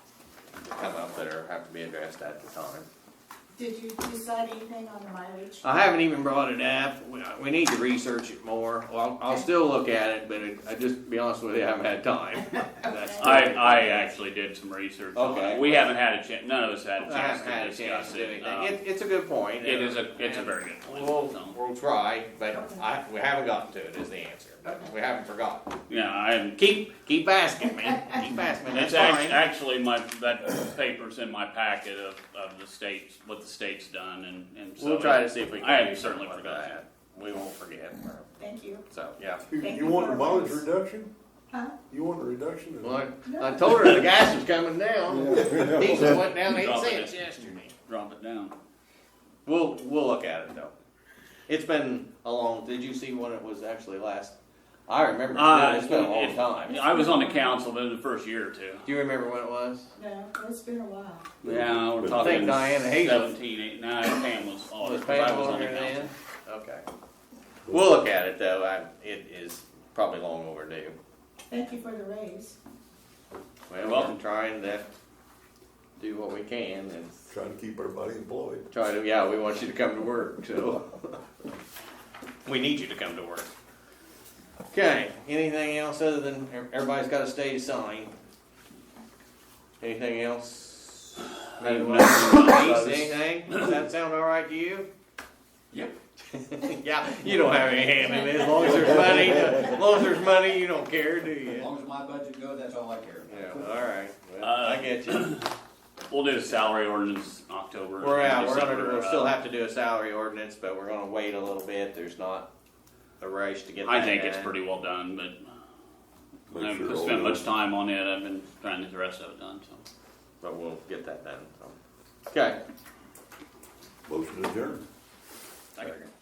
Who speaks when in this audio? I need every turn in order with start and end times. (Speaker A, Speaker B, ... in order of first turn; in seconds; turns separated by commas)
Speaker A: 0.6-2.9, Speaker B: 3.5-5.8, Speaker A: 5.6-14.1, Speaker B: 12.9-13.5, Speaker C: 13.2-18.8, Speaker A: 15.2-15.9, Speaker A: 17.0-25.7, Speaker C: 19.6-21.6, Speaker B: 22.6-22.8, Speaker C: 25.9-26.6, Speaker A: 26.6-29.4, Speaker C: 28.7-36.8, Speaker A: 34.8-38.3, Speaker B: 38.4-38.8, Speaker A: 38.9-39.4, Speaker D: 39.5-41.1, Speaker B: 39.6-40.6, Speaker B: 41.5-41.8, Speaker D: 41.9-43.0, Speaker A: 42.8-47.7, Speaker B: 43.2-43.8, Speaker D: 45.1-46.2, Speaker C: 46.0-48.5, Speaker A: 49.5-50.7, Speaker A: 51.5-54.4, Speaker A: 54.9-56.8, Speaker C: 55.3-58.9, Speaker B: 56.7-57.6, Speaker A: 58.9-59.9, Speaker B: 60.0-61.3, Speaker C: 61.4-66.1, Speaker D: 61.5-62.7, Speaker A: 62.2-63.3, Speaker A: 64.8-66.8, Speaker A: 67.7-71.0, Speaker B: 71.5-72.6, Speaker A: 73.7-74.9, Speaker C: 73.8-74.2, Speaker A: 76.0-77.1, Speaker D: 77.3-78.7, Speaker A: 78.7-81.2, Speaker A: 82.5-83.5, Speaker A: 84.7-88.1, Speaker A: 89.8-94.9, Speaker C: 91.5-93.7, Speaker A: 96.3-101.7, Speaker E: 98.7-99.1, Speaker E: 101.5-103.8, Speaker A: 103.3-105.4, Speaker C: 104.4-105.5, Speaker C: 106.1-109.4, Speaker A: 108.0-112.5, Speaker A: 113.2-114.5, Speaker C: 113.8-115.5, Speaker D: 116.5-117.4, Speaker C: 116.5-119.8, Speaker A: 120.4-121.8, Speaker A: 122.3-122.6, Speaker D: 124.1-124.8